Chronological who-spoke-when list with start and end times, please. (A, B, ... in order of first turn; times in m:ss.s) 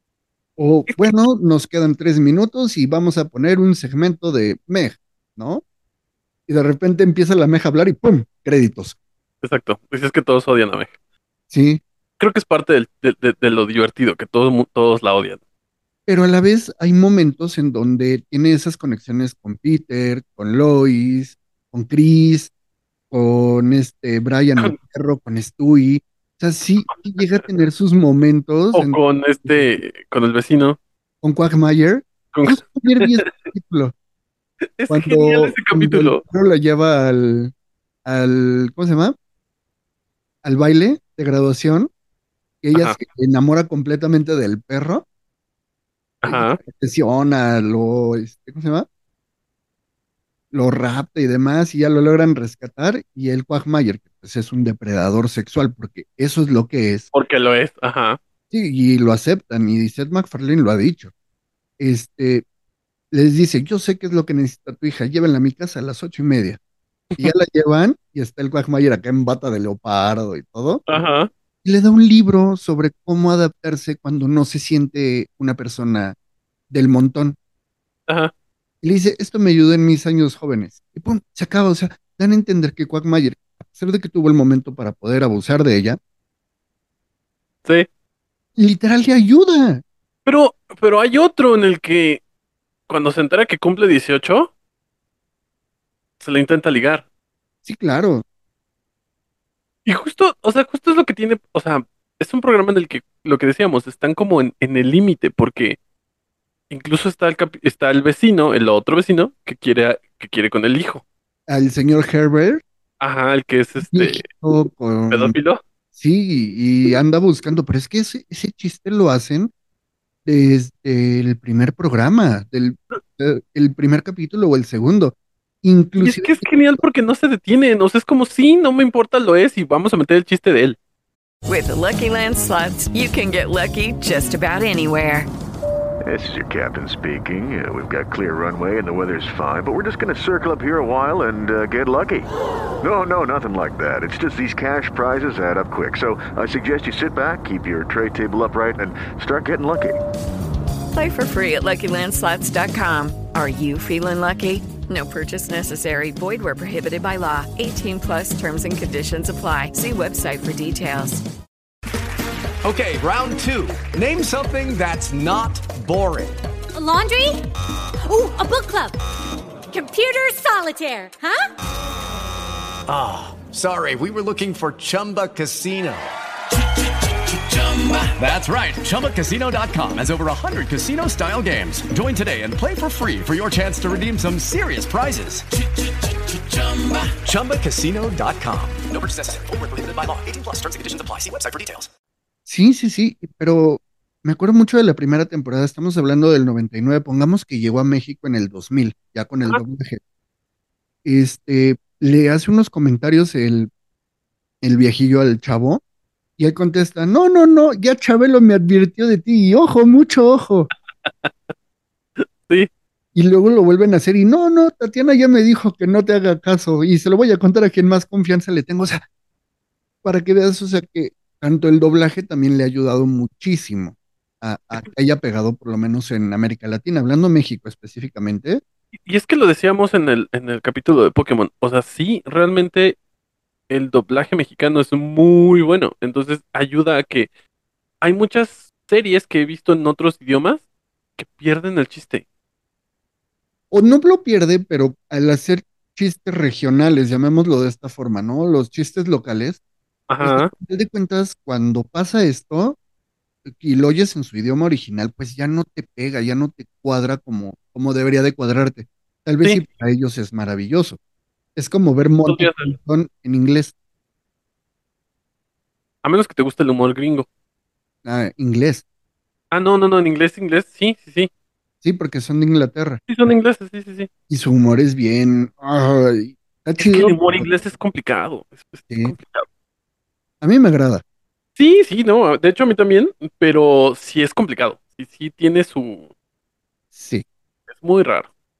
0:00.6-0:05.6 A
0:00.9-0:01.2 B
0:06.5-0:09.0 A
0:09.4-0:10.9 B
0:11.5-0:11.8 A
0:12.2-0:15.4 B
0:16.1-0:22.5 A
0:23.1-0:29.7 A
0:26.9-0:27.2 B
0:28.7-0:30.8 B
0:31.2-0:33.9 A
0:32.3-0:33.5 B
0:34.8-0:36.2 B
0:34.9-0:37.5 A
0:38.0-0:39.1 A
0:40.4-0:41.9 A
0:42.6-0:45.1 A
0:46.2-0:46.6 B
0:46.2-0:48.9 A
0:50.5-0:57.1 A
0:57.1-0:58.2 B
0:58.5-1:01.1 A
1:01.8-1:02.4 A
1:03.1-1:06.6 A
1:07.2-1:10.8 A
1:10.9-1:11.3 B
1:11.6-1:16.2 A
1:16.7-1:17.4 A
1:18.8-1:26.0 A
1:28.6-1:29.8 A
1:30.2-1:32.2 B
1:32.9-1:34.5 B
1:36.2-1:37.0 B
1:37.6-1:38.2 A
1:39.9-1:45.8 B
1:46.7-1:51.0 B
1:51.5-1:52.6 A
1:53.0-1:54.2 B
1:53.8-1:55.4 A
1:55.1-1:55.6 B
1:55.9-1:59.5 A
2:00.2-2:06.4 A
2:06.0-2:10.8 B
2:11.4-2:15.3 C
2:16.0-2:22.3 D
2:22.8-2:30.0 D
2:30.9-2:41.2 C
2:42.6-2:46.4 E
2:46.7-2:47.4 F
2:48.0-2:49.0 F
2:49.7-2:51.5 F
2:52.9-2:56.1 E
2:57.2-3:05.5 E
3:06.5-3:11.9 E
3:12.4-3:20.0 A
3:21.0-3:23.7 A
3:24.6-3:25.8 A
3:26.4-3:30.7 A
3:31.0-3:31.5 B
3:32.2-3:32.7 B
3:33.1-3:39.0 A
3:40.0-3:48.6 A
3:49.1-3:53.0 B
3:53.7-3:57.3 B
3:58.0-4:00.6 B
4:01.2-4:02.2 B
4:03.7-4:09.6 A
4:10.1-4:10.5 B
4:10.2-4:12.8 A
4:13.4-4:21.0 A
4:21.6-4:23.7 A
4:22.2-4:22.7 B
4:26.0-4:27.3 B
4:28.0-4:28.8 A
4:29.5-4:31.3 B
4:31.8-4:33.3 A
4:33.1-4:34.1 B
4:34.3-4:37.5 A
4:36.8-4:39.4 B
4:38.9-4:39.1 A
4:40.4-4:41.0 A
4:41.6-4:46.1 B
4:46.9-4:47.2 A
4:47.7-4:48.3 B